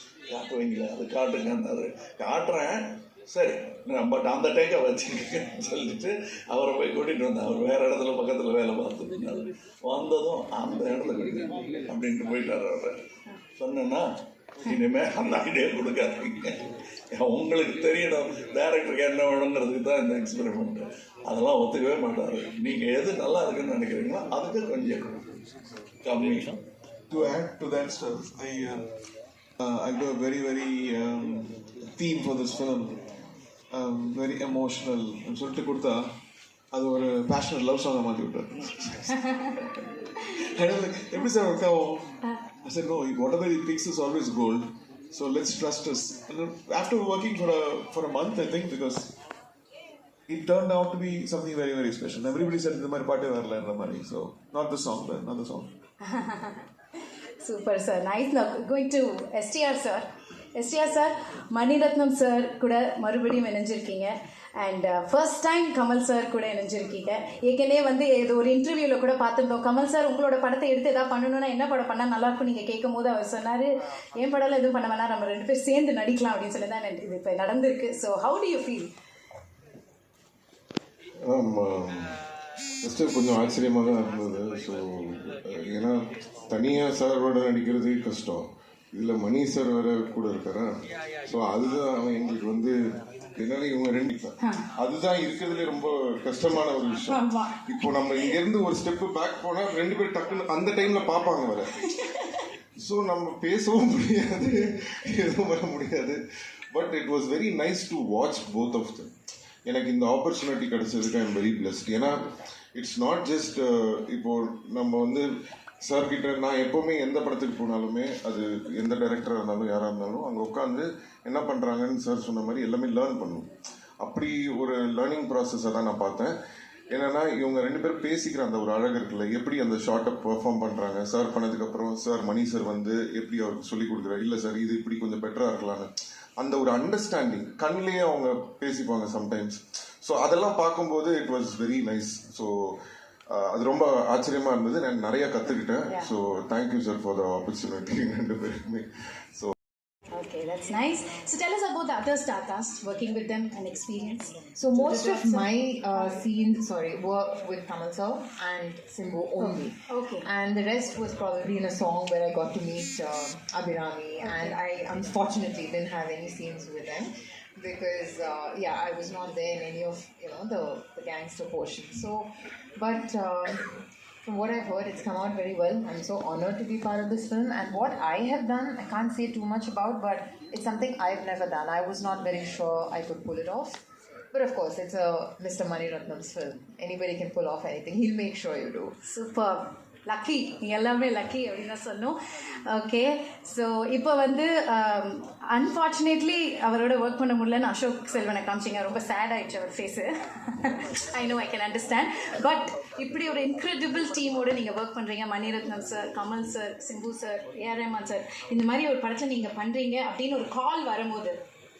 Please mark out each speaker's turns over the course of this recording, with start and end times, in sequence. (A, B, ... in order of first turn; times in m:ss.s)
0:00.3-0:13.0 A
0:13.6-0:14.0 A
0:14.6-0:25.2 A
0:26.0-0:26.6 A
0:27.1-0:28.9 B
0:29.6-0:33.0 B
0:33.7-0:36.1 B
0:36.7-0:39.8 B
0:40.6-0:49.1 B
0:50.3-0:55.7 B
0:56.0-0:56.6 C
0:57.4-1:18.9 C
1:21.2-1:22.2 D
1:22.8-1:30.7 D
1:31.2-1:32.8 D
1:33.4-1:41.8 D
1:34.4-1:34.7 C
1:37.1-1:37.7 C
1:42.0-1:42.3 C
1:42.8-1:46.2 D
1:46.7-1:49.1 D
1:49.7-1:55.3 D
1:55.8-2:03.5 D
2:04.0-2:06.3 D
2:06.9-2:22.8 D
2:23.3-2:29.5 D
2:30.1-2:36.1 C
2:34.6-3:03.8 E
2:39.4-2:40.3 C
2:44.2-2:44.6 C
3:04.3-3:09.0 E
3:09.1-3:31.4 C